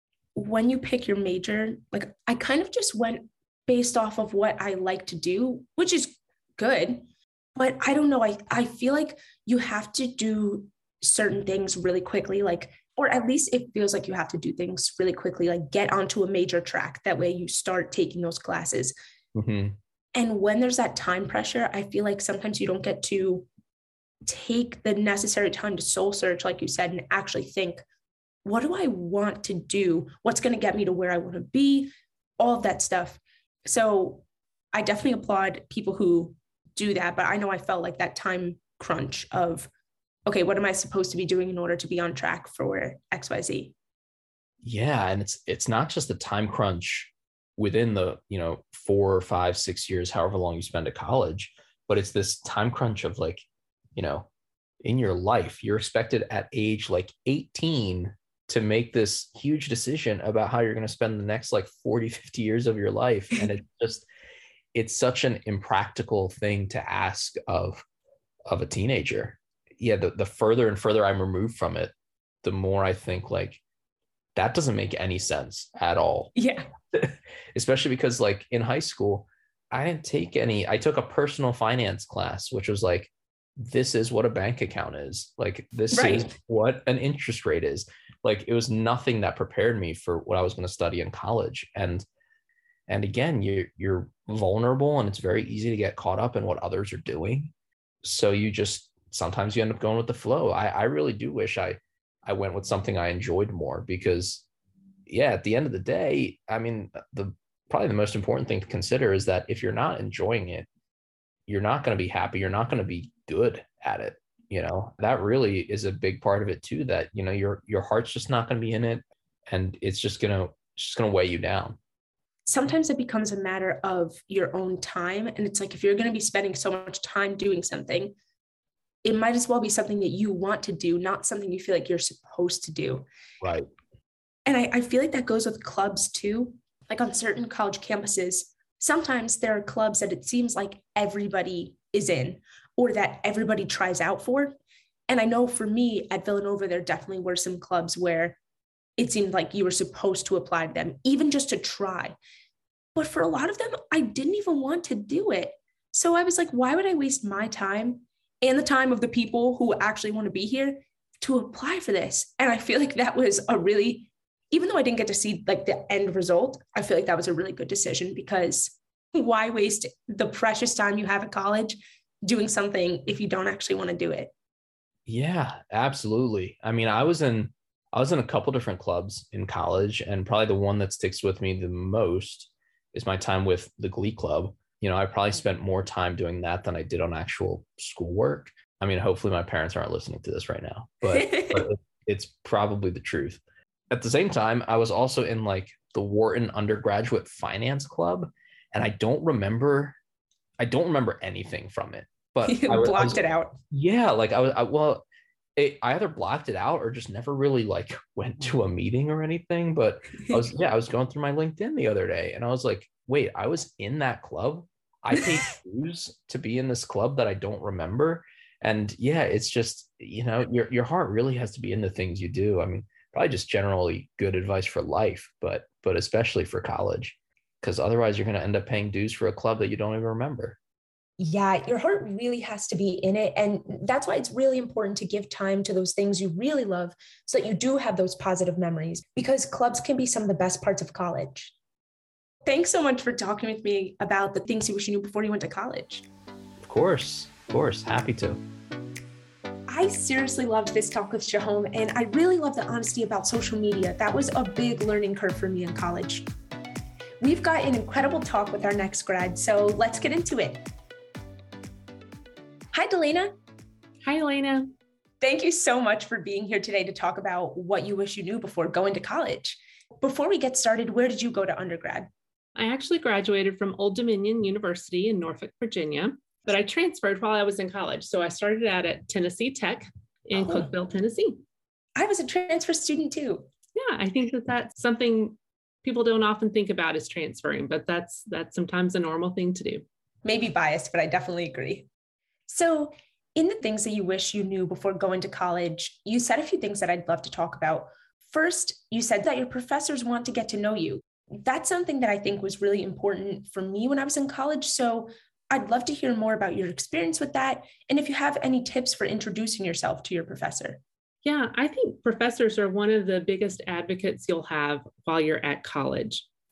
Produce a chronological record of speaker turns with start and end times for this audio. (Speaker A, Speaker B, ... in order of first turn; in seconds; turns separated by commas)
Speaker A: 0.3-18.9, Speaker B: 19.4-19.8, Speaker A: 20.1-23.5, Speaker A: 24.2-27.8, Speaker A: 28.4-39.7, Speaker A: 40.3-43.7, Speaker B: 44.6-53.4, Speaker B: 54.0-54.3, Speaker B: 54.8-64.1, Speaker B: 64.7-67.8, Speaker B: 68.5-73.6, Speaker B: 74.3-76.3, Speaker A: 76.3-76.7, Speaker B: 76.9-92.0, Speaker A: 85.9-86.3, Speaker B: 92.9-97.5, Speaker B: 98.0-104.5, Speaker B: 105.1-110.7, Speaker B: 111.5-121.8, Speaker A: 122.5-128.2, Speaker A: 129.0-133.1, Speaker B: 133.4-133.7, Speaker A: 134.5-144.6, Speaker A: 145.1-148.4, Speaker A: 149.0-152.2, Speaker A: 152.9-174.3, Speaker B: 175.1-200.0, Speaker A: 191.1-191.7, Speaker B: 200.6-203.2, Speaker A: 202.4-203.6, Speaker B: 203.7-205.1, Speaker B: 205.6-230.6, Speaker A: 231.2-241.5, Speaker A: 242.4-246.1, Speaker B: 246.6-248.4, Speaker A: 249.7-256.3, Speaker A: 257.2-260.6, Speaker A: 262.7-263.3, Speaker C: 264.0-264.7, Speaker A: 265.2-272.1, Speaker C: 272.6-281.4, Speaker A: 280.3-280.7, Speaker A: 282.0-283.5, Speaker C: 283.8-289.9, Speaker A: 290.2-291.9, Speaker A: 292.5-310.8, Speaker C: 311.2-316.3